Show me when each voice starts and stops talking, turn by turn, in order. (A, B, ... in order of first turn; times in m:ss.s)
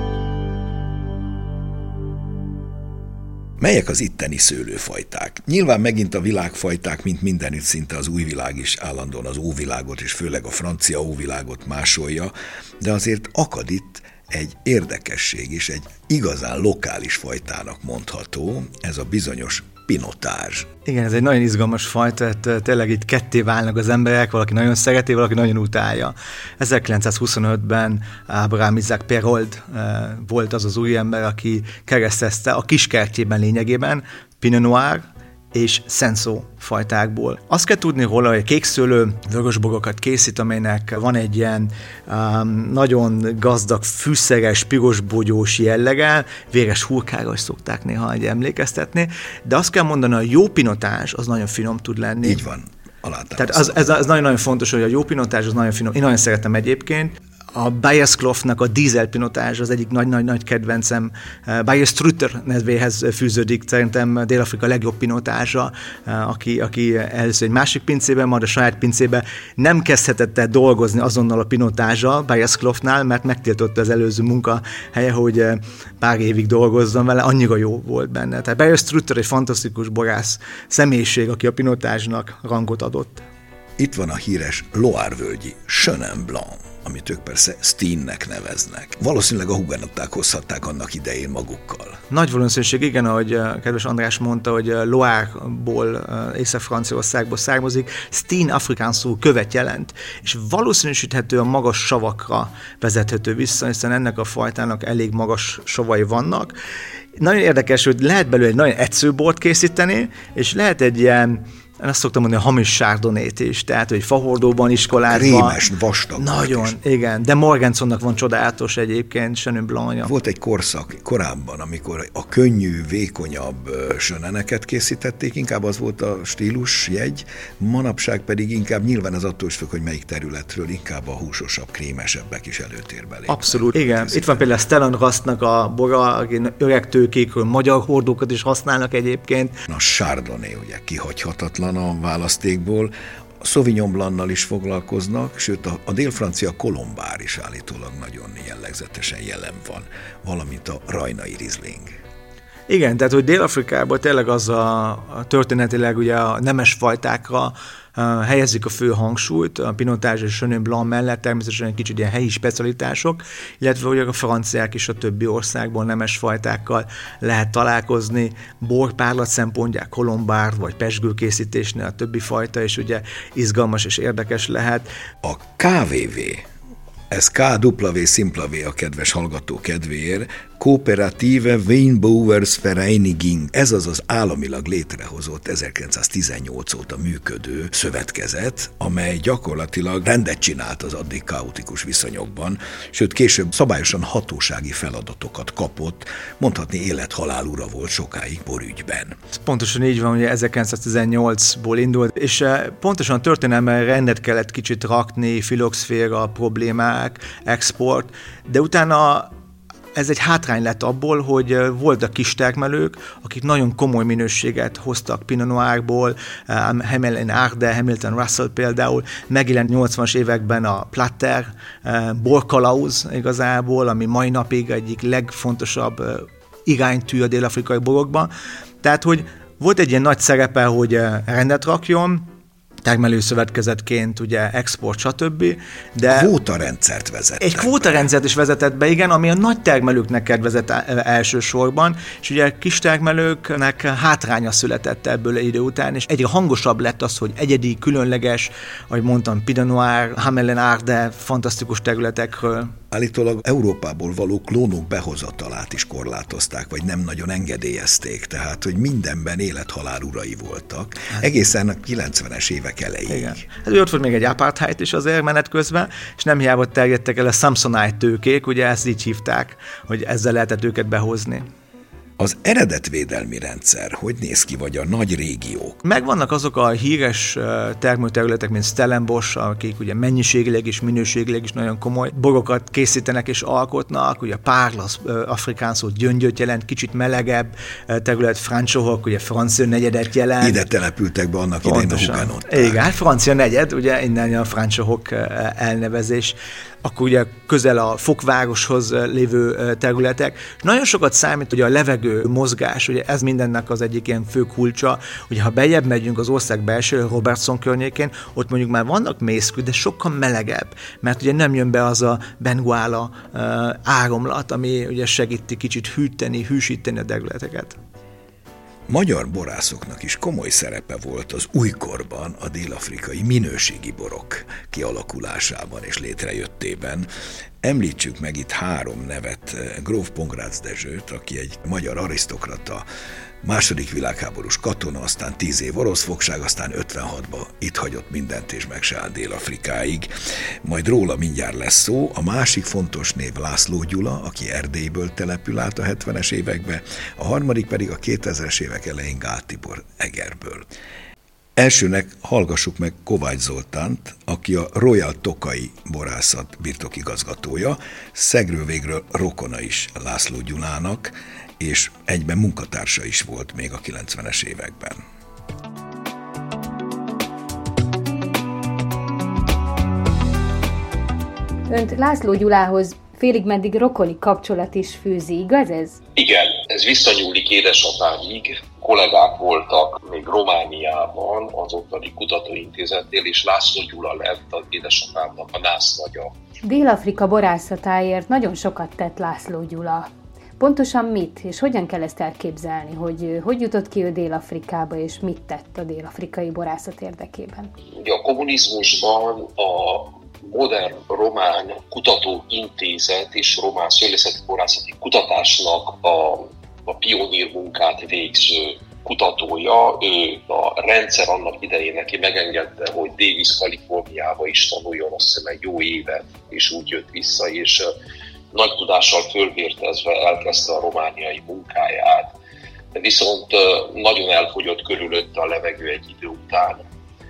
0:03.6-0:20.7 A
0:20.8-0:52.4 B
0:52.2-0:53.9 A
0:53.4-1:23.2 B
1:23.8-1:32.0 A
1:32.1-1:46.5 B
1:47.2-1:55.6 B
1:55.0-1:56.7 A
1:56.2-2:00.1 B
2:00.0-2:14.4 A
2:13.3-2:19.6 B
2:19.7-2:31.9 A
2:32.7-2:54.9 B
2:55.2-2:56.4 A
2:57.1-3:19.1 A
3:19.3-3:29.3 B
3:29.9-3:48.3 B
3:48.8-3:52.3 B
3:52.8-3:56.3 B
3:56.1-3:58.1 A
3:57.4-4:12.8 B
4:12.9-4:23.4 A
4:23.1-4:31.4 B
4:32.2-4:35.8 A
4:35.8-4:50.7 B
4:50.4-4:52.9 A
4:51.6-5:17.8 B
5:18.9-5:27.1 A
5:27.6-5:32.8 A
5:33.4-5:40.1 A
5:40.6-5:50.7 A
5:51.6-6:05.0 A
6:11.7-6:16.0 C
6:16.2-6:26.3 D
6:26.6-6:37.7 C
6:38.0-6:57.9 D
6:58.5-7:02.3 D
7:02.9-7:06.8 D